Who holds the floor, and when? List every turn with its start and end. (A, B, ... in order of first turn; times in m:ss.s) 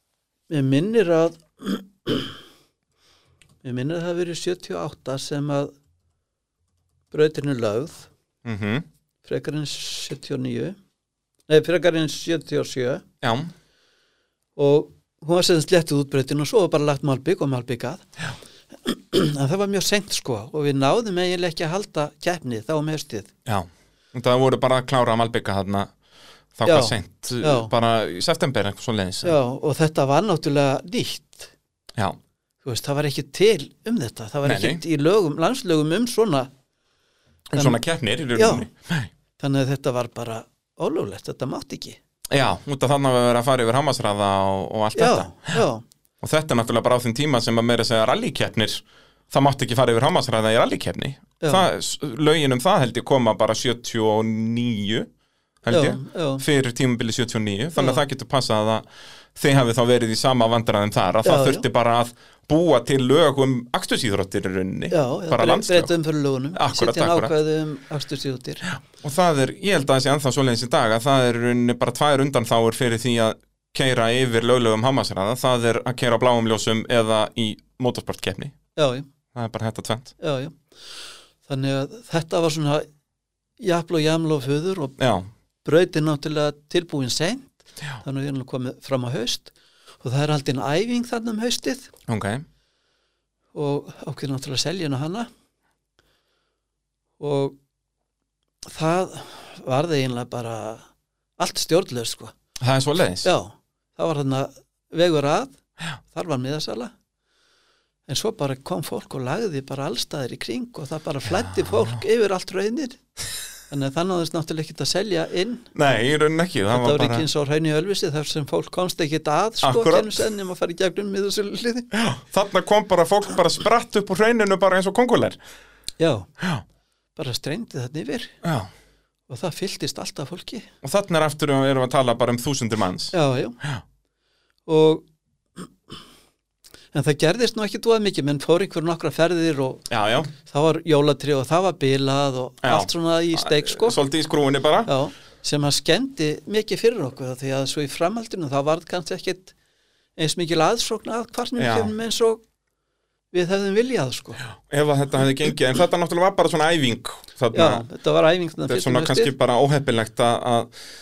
0:00.5-0:02.4 A
0:03.6-0:05.7 A
0:07.1-0:08.1 A
0:08.4-0:08.8 B
0:09.2-0:10.8 A
0:11.5-0:13.0 A
0:13.2-0:13.5 B
0:14.6-0:18.0 A
0:18.8-0:23.3 A
0:23.4-0:25.9 B
0:26.6-0:29.4 B
0:26.6-0:27.7 A
0:29.2-0:31.5 A
0:32.6-0:36.5 A
0:34.4-0:34.8 B
0:37.5-0:39.1 B
0:38.4-0:38.7 A
0:39.4-0:42.0 A
0:42.3-0:45.6 B
0:44.9-0:45.8 A
0:46.2-0:55.1 B
0:55.6-1:05.9 B
0:55.7-0:56.4 A
0:57.8-0:58.0 A
1:01.2-1:01.6 A
1:04.9-1:08.6 A
1:06.5-1:07.3 B
1:08.7-1:18.5 B
1:18.8-1:19.1 A
1:19.3-1:20.1 B
1:20.2-1:20.6 A
1:21.4-1:22.8 A
1:23.6-1:24.9 A
1:25.0-1:25.3 B
1:25.6-1:31.9 A
1:32.1-1:32.4 B
1:33.5-1:35.3 A
1:37.2-1:37.6 A
1:38.6-1:40.8 A
1:41.4-1:42.3 A
1:42.6-1:43.3 B
1:43.2-1:45.6 A
1:46.1-1:46.9 A
1:48.1-1:53.0 A
1:51.4-1:51.9 B
1:53.7-1:55.7 A
1:55.7-1:57.2 B
1:56.7-2:01.9 A
1:59.6-2:00.2 B
2:01.9-2:05.4 B
2:06.0-2:06.3 A
2:06.4-2:06.6 B
2:07.2-2:08.3 A
2:08.4-2:08.7 B
2:09.3-2:10.7 A
2:10.8-2:13.8 B
2:13.1-2:13.6 A
2:14.7-2:15.0 A
2:15.6-2:15.9 A
2:16.9-2:24.0 A
2:19.9-2:20.3 B
2:22.6-2:24.9 B
2:24.8-2:29.5 A
2:30.2-2:32.4 A
2:31.6-2:31.9 B
2:33.3-2:34.4 A
2:34.5-2:37.8 B
2:37.5-2:39.3 A
2:38.7-2:40.7 B